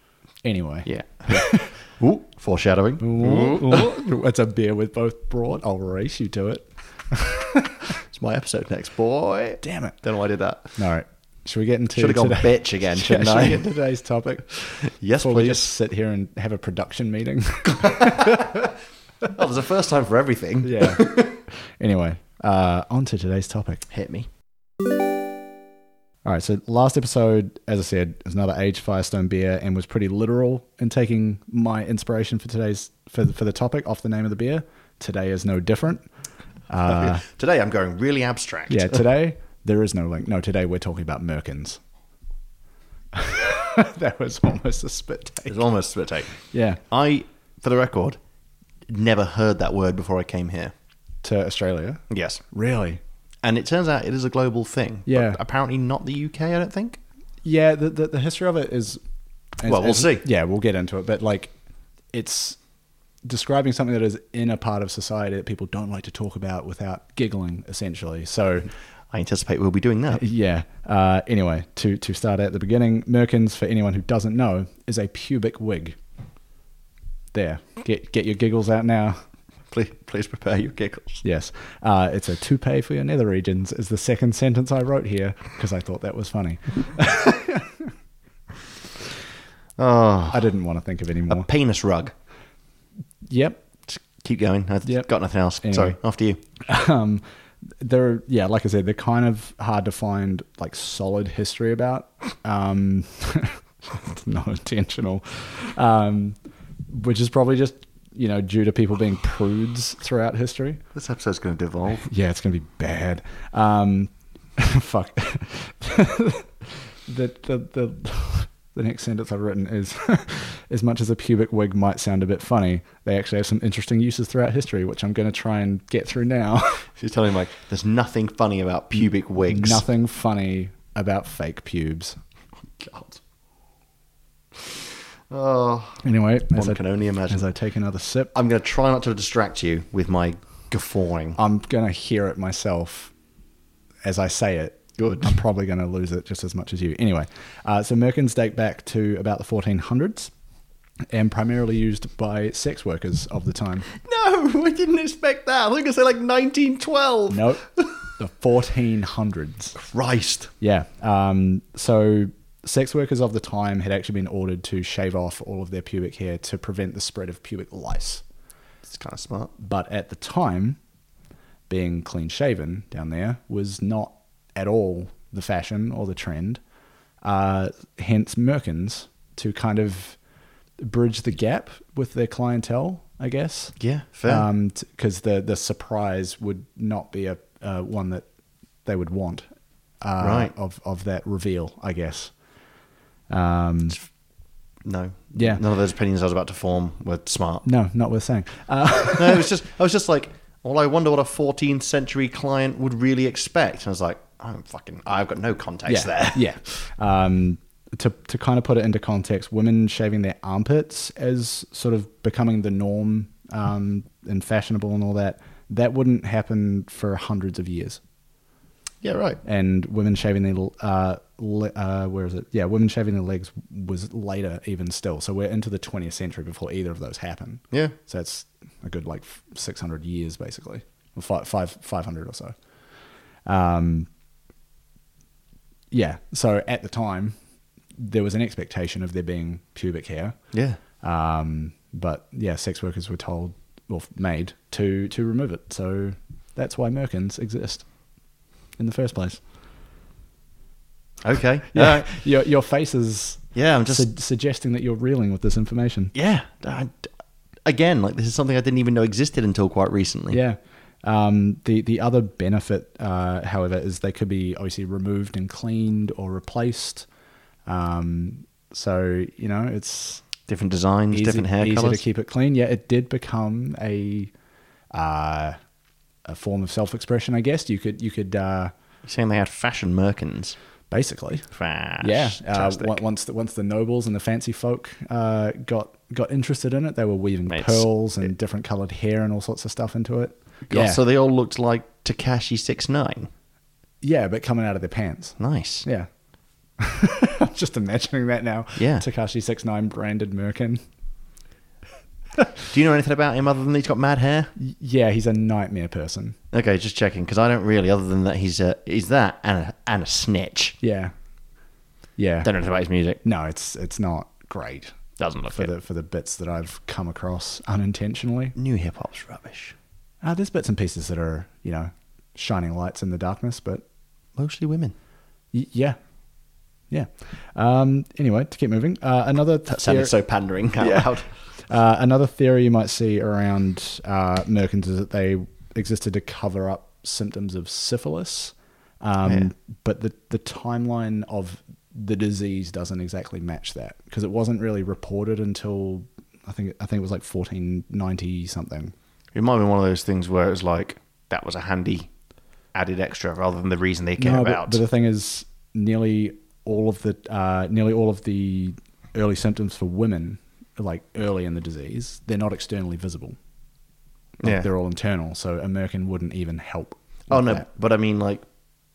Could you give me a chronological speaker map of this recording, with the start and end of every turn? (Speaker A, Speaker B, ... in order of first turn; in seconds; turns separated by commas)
Speaker A: 0.4-1.8, Speaker B: 0.8-3.9, Speaker A: 3.0-7.8, Speaker B: 7.9-10.8, Speaker A: 9.6-10.0, Speaker A: 10.8-14.5, Speaker B: 11.9-13.7, Speaker B: 14.6-15.7, Speaker A: 15.2-18.7, Speaker B: 17.8-18.7, Speaker B: 19.3-21.4, Speaker A: 20.6-23.8, Speaker B: 23.9-24.3, Speaker A: 26.2-36.1, Speaker A: 36.7-37.2, Speaker B: 36.9-39.0, Speaker A: 38.7-41.8, Speaker A: 43.1-45.6, Speaker B: 45.5-46.3, Speaker A: 46.4-46.8, Speaker B: 46.9-48.2, Speaker B: 48.9-50.7, Speaker A: 51.2-53.0, Speaker B: 52.1-52.4, Speaker B: 53.4-57.0, Speaker A: 55.0-55.4, Speaker A: 57.4-59.0, Speaker A: 59.6-61.5, Speaker B: 59.6-60.2, Speaker A: 62.1-62.6, Speaker A: 63.2-68.7, Speaker B: 69.1-70.2, Speaker A: 70.1-76.0, Speaker A: 77.3-79.2, Speaker B: 79.7-81.2, Speaker A: 81.2-87.9, Speaker B: 89.8-90.5, Speaker A: 90.3-91.5, Speaker B: 91.3-92.1, Speaker A: 93.2-93.6, Speaker B: 93.9-96.4, Speaker A: 95.6-96.0, Speaker A: 96.6-97.2, Speaker A: 97.8-106.3, Speaker A: 106.9-110.8, Speaker B: 110.9-112.1, Speaker A: 112.0-126.9, Speaker B: 126.9-129.8, Speaker A: 129.5-132.2, Speaker B: 132.7-133.2, Speaker B: 134.5-137.4, Speaker A: 136.0-138.3, Speaker B: 138.3-141.4, Speaker A: 141.3-143.1, Speaker A: 144.0-150.3, Speaker B: 145.0-145.3, Speaker A: 151.1-153.9, Speaker B: 153.9-157.9, Speaker A: 157.3-157.6, Speaker A: 158.2-159.8, Speaker B: 159.8-160.5, Speaker A: 160.6-168.2, Speaker B: 168.8-169.5, Speaker A: 169.6-170.8, Speaker A: 171.7-176.6, Speaker A: 177.2-180.2, Speaker A: 180.8-188.2, Speaker B: 183.8-184.4, Speaker A: 188.8-189.5, Speaker A: 190.0-192.3, Speaker B: 190.2-190.5, Speaker A: 193.3-194.0, Speaker B: 194.8-197.6, Speaker A: 195.3-195.6, Speaker A: 197.6-199.5, Speaker B: 199.2-206.7, Speaker A: 205.9-218.0, Speaker B: 219.0-219.4, Speaker A: 219.4-232.5, Speaker A: 233.4-234.1, Speaker A: 235.9-237.3, Speaker A: 238.0-240.4, Speaker B: 240.5-240.8, Speaker A: 241.0-247.9, Speaker A: 248.8-249.4, Speaker B: 251.2-252.1, Speaker A: 251.7-256.1, Speaker B: 253.5-254.1, Speaker B: 256.1-257.1, Speaker B: 257.6-260.4, Speaker A: 260.3-267.1, Speaker A: 267.7-270.3, Speaker B: 270.5-272.0, Speaker A: 271.1-274.3, Speaker A: 274.9-275.6, Speaker A: 276.2-278.7, Speaker B: 279.0-280.6, Speaker A: 280.9-281.5, Speaker B: 281.5-283.0, Speaker A: 282.0-291.0, Speaker B: 287.5-287.9, Speaker B: 290.7-293.3, Speaker A: 294.0-296.1, Speaker B: 295.4-295.9, Speaker A: 296.8-300.8, Speaker B: 298.8-299.0, Speaker B: 302.7-304.5, Speaker A: 304.6-306.4, Speaker B: 306.5-310.8, Speaker A: 310.8-311.1, Speaker A: 312.2-312.5, Speaker B: 312.4-313.2, Speaker A: 313.2-315.0, Speaker B: 315.2-315.7, Speaker A: 315.5-318.6, Speaker B: 318.6-319.8, Speaker A: 320.2-323.8, Speaker B: 324.4-324.9, Speaker A: 325.5-326.0, Speaker A: 326.9-330.1, Speaker B: 329.7-331.3, Speaker A: 330.8-331.1, Speaker A: 331.6-348.9, Speaker B: 349.3-352.1, Speaker B: 352.7-354.8, Speaker A: 354.2-363.4, Speaker A: 364.4-367.7, Speaker B: 364.4-364.7, Speaker B: 367.3-368.4